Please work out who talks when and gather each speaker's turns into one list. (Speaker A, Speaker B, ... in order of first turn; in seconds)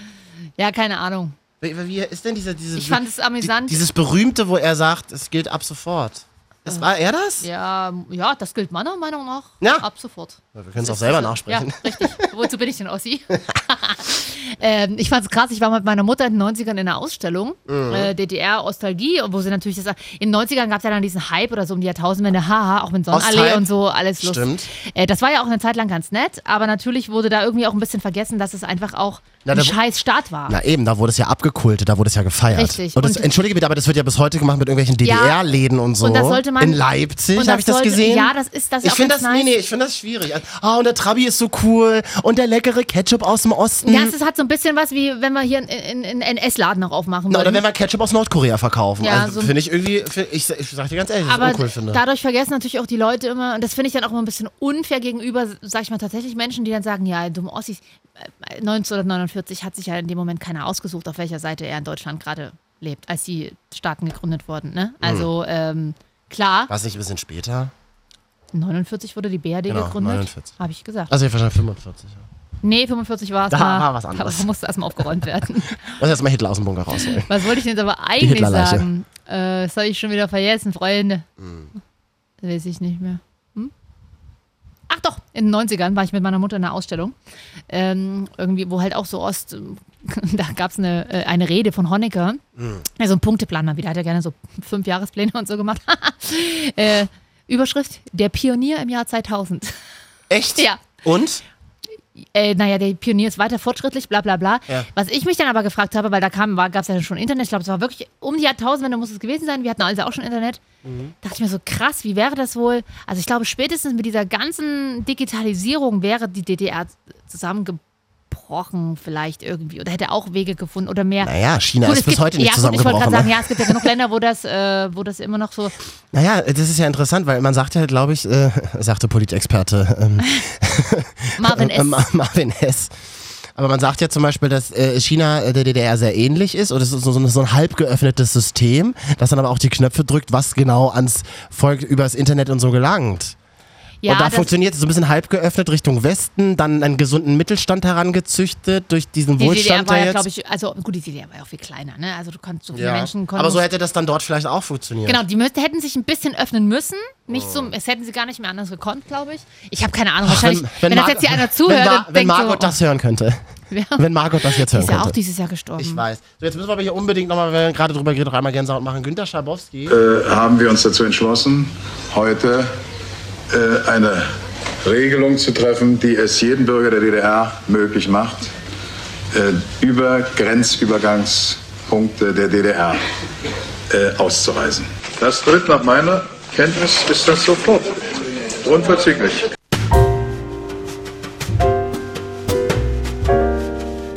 Speaker A: 0.6-1.4, 2.7-3.8, 7.4-30.5, 32.5-33.3, 35.0-39.5, 43.8-47.6, 49.0-49.5, 51.2-66.7, 68.5-71.1, 72.6-76.0, 77.1-81.2, 82.4-83.7, 84.9-87.1, 87.7-92.4, 93.0-99.8, 102.2-110.6, 111.2-125.7, 131.4-132.0, 144.0-144.5, 149.4-153.6, 155.1-162.8, 163.7-166.0
Speaker B: 1.6-7.5, 9.6-9.8, 10.5-12.3, 17.7-18.1, 23.1-23.7, 24.2-24.7, 29.4-29.8, 30.5-38.3, 38.8-44.1, 47.3-52.0, 65.0-65.3, 66.7-67.7, 69.7-70.5, 71.1-72.2, 73.5-74.5, 75.9-77.3, 78.2-78.9, 81.4-81.7, 92.6-92.8, 100.3-101.4, 110.8-111.1, 121.2-123.8, 126.1-132.9, 133.6-143.3, 144.1-150.2, 152.7-155.2, 157.3-157.7, 160.2-163.4, 164.0-165.2, 165.8-169.9
Speaker C: 169.9-172.7, 173.5-174.3, 174.8-178.5, 179.3-183.0, 183.9-189.4